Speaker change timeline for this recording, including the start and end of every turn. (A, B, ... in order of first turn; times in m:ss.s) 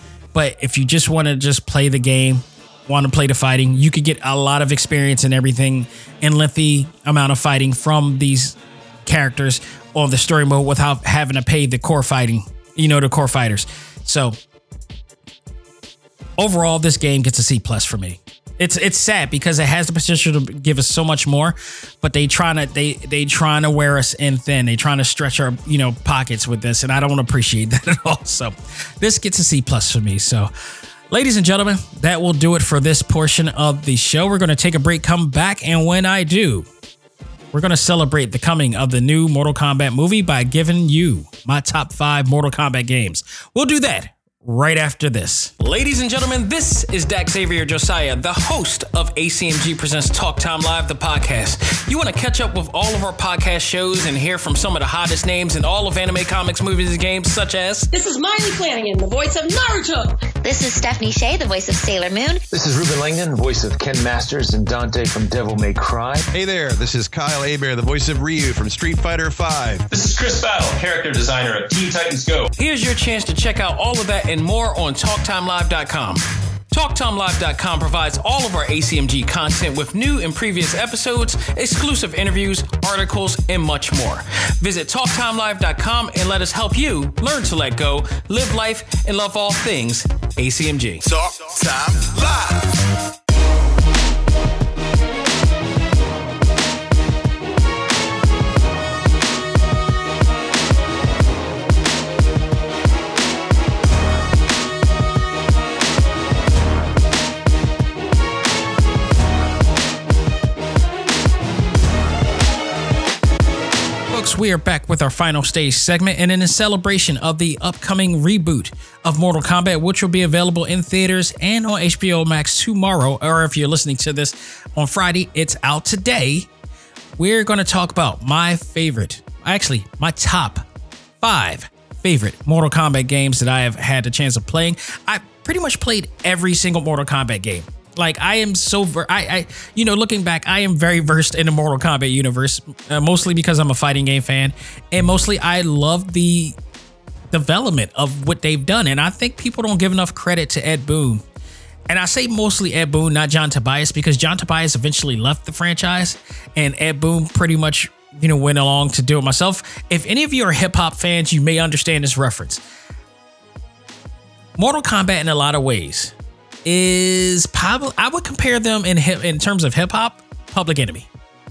0:00.3-0:14.4 A
0:16.4-0:30.5 A
0:31.1-0:36.7 A
0:37.5-0:57.9 A
0:57.9-1:00.3 B
1:00.4-1:02.4 C
1:02.5-1:06.3 D
1:06.3-1:09.9 E
1:09.9-1:12.5 F
1:12.6-1:31.1 A
1:31.0-1:32.7 E
1:54.1-2:06.5 A
2:07.2-2:10.6 A
2:11.2-2:26.6 A
2:27.3-2:31.2 A
2:31.9-2:42.6 A
2:44.6-2:46.1 A
2:46.6-2:51.1 A